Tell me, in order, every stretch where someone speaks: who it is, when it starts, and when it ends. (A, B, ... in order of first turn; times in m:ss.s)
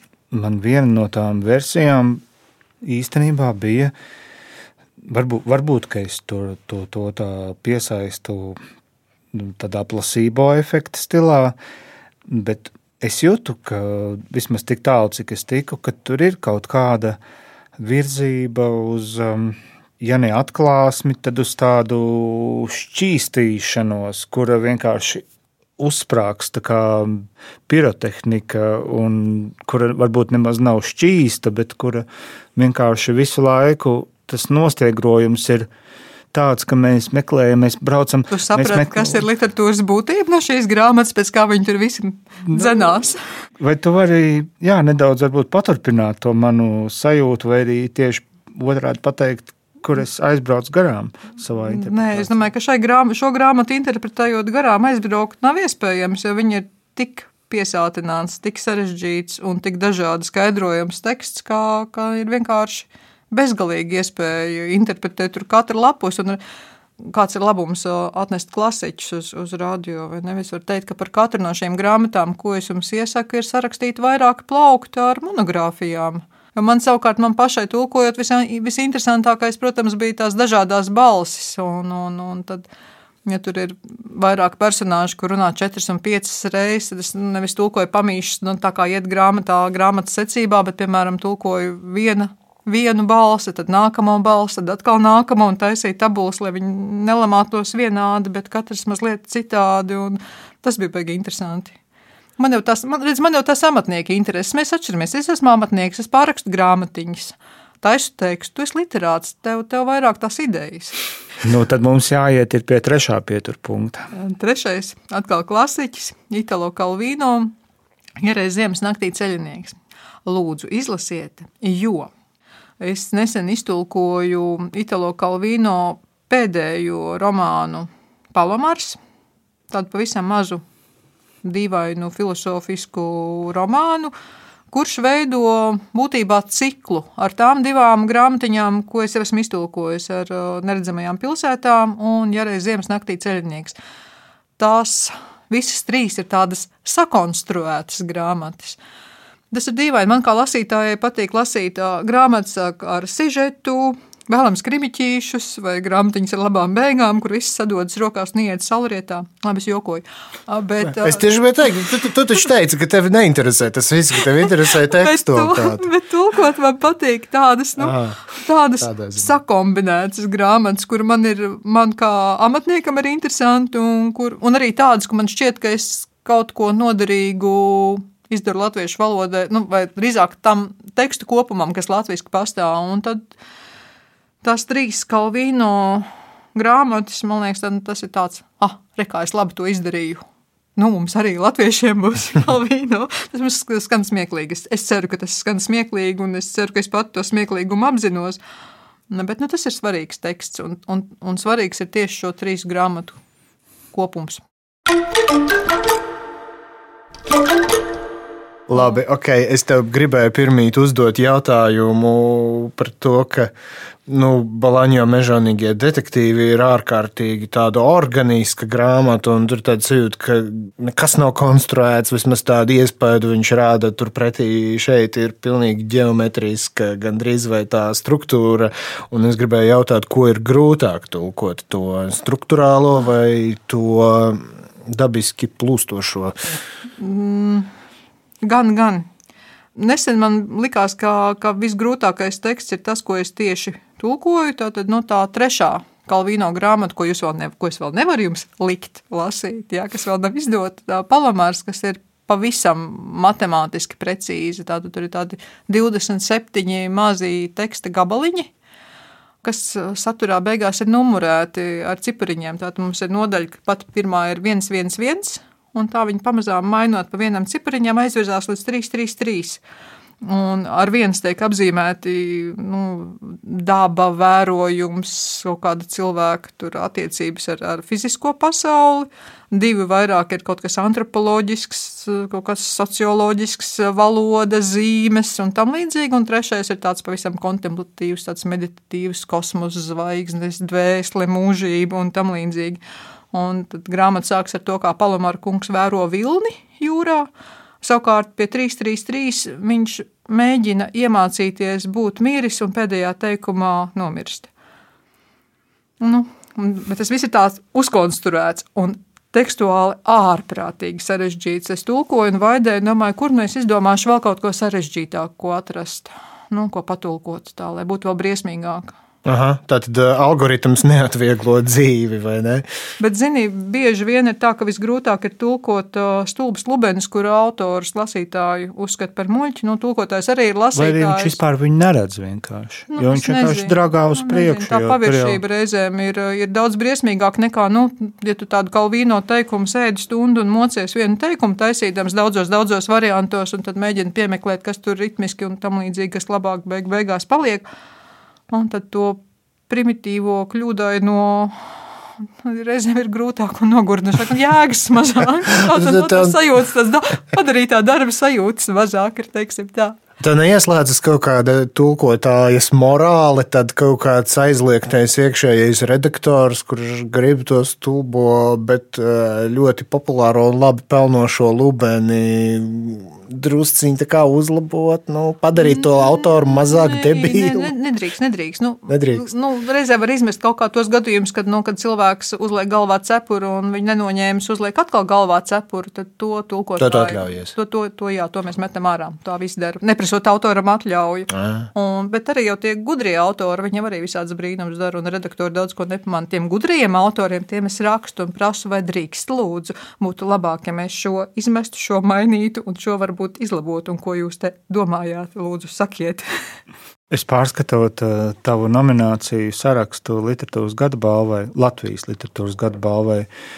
0:00.3-0:02.2 A
0:02.8-0:03.9 A
0:05.1-0:08.6 A
0:09.3-0:11.6 A
0:12.3-0:17.2 A
0:17.8-0:25.2 A
0:25.8-0:35.7 A
0:36.3-0:39.2 A
0:38.3-0:43.2 B
0:43.6-0:52.4 A
0:51.6-1:06.4 B
1:07.0-1:22.7 B
1:23.3-1:41.8 B
1:42.4-1:51.0 B
1:51.4-1:54.1 A
1:54.1-1:57.5 B
1:58.2-2:02.1 B
2:02.8-2:09.0 B
2:09.7-2:10.6 B
2:11.4-2:14.1 B
2:14.7-2:23.8 B
2:24.6-2:28.8 B
2:29.5-2:41.3 B
2:40.9-2:45.9 C
2:44.9-3:03.3 B
2:47.8-2:48.2 C
2:48.8-2:49.3 C
3:04.4-3:10.2 B
3:10.8-3:18.4 B
3:19.1-3:23.2 B
3:23.9-3:24.4 B
3:28.7-3:33.5 C
3:34.1-3:56.5 C
3:57.0-3:57.7 B
3:58.4-3:59.1 B
3:59.8-4:18.5 B
4:19.4-4:29.6 B
4:30.2-4:52.8 B
4:53.3-4:57.3 B
4:57.8-5:04.5 B
5:06.0-5:18.9 B
5:19.2-5:22.6 C
5:23.0-5:31.4 B
5:30.8-5:35.4 A
5:32.9-5:47.7 B
5:48.5-5:51.6 B
5:52.4-6:00.0 B
5:55.7-5:56.4 C
6:00.2-6:17.7 C
6:15.6-6:46.2 B
6:18.9-6:19.3 C
6:26.8-6:27.5 C
6:31.4-6:31.6 C
6:47.1-6:53.3 A